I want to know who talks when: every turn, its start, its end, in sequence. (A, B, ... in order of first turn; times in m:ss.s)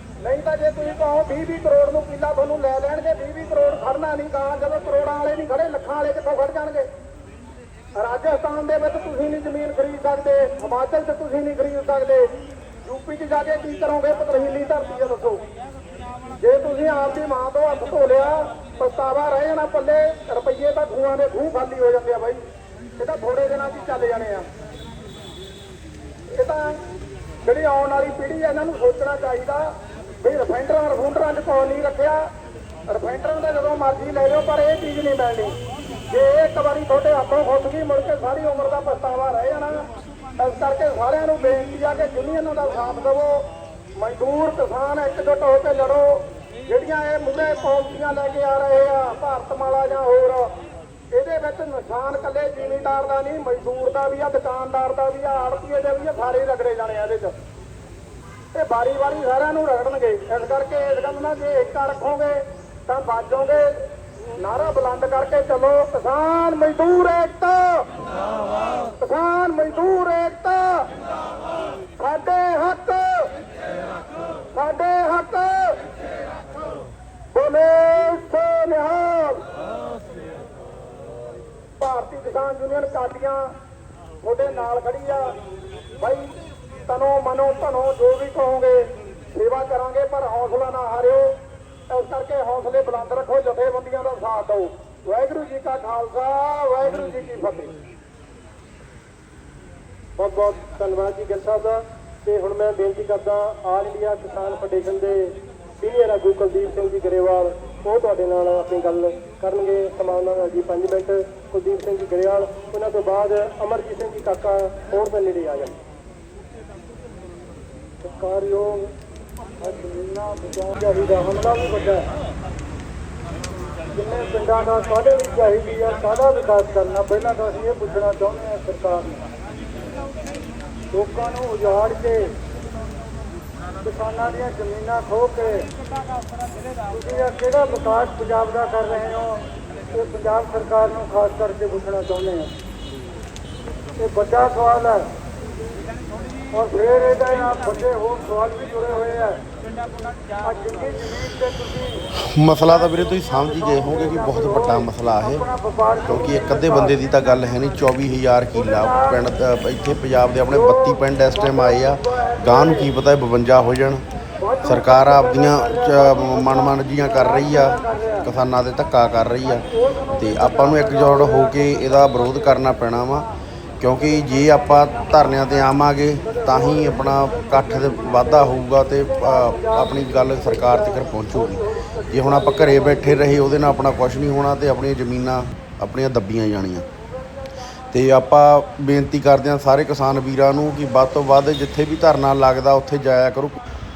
0:00.2-0:06.9 A
0:08.0-0:12.3 A
0:12.8-0:15.4 A
0:16.4-0:22.4 A
0:23.0-0:24.4 A
0:26.3-0:26.8 A
0:27.4-0:29.7 A
0:30.2-0:32.2 A
0:32.9-0:35.6 A
0:36.1-0:39.8 A
0:40.4-0:43.5 A
0:44.0-0:50.5 A
0:51.1-0:57.3 A
0:58.5-1:03.8 A
1:04.4-1:07.9 A
1:09.0-1:10.9 A
1:12.0-1:13.3 A
1:14.5-1:15.8 A
1:17.3-1:19.4 A
1:21.8-1:23.5 A
1:24.2-1:25.3 A
1:26.0-1:26.3 A
1:26.9-1:31.3 A
1:31.9-1:37.8 A
1:40.2-1:55.8 B
1:58.0-1:58.9 C
1:59.6-2:02.0 C
2:04.0-2:09.2 C
2:10.9-2:12.3 C
2:13.8-2:15.7 C
2:16.9-2:19.4 C
2:19.9-2:22.5 C
2:24.0-2:25.0 C
2:26.5-2:29.4 C
2:30.4-2:32.0 C
2:32.3-2:35.4 D
2:32.7-2:36.9 C
2:36.0-2:44.0 D
2:38.5-2:39.2 C
2:40.5-2:42.8 C
2:44.4-2:46.6 C
2:44.6-2:53.2 D
2:50.4-2:51.9 C
2:53.8-3:06.8 D
2:56.5-2:57.9 C
2:59.5-2:59.9 C
3:01.4-3:02.4 C
3:07.9-3:13.6 D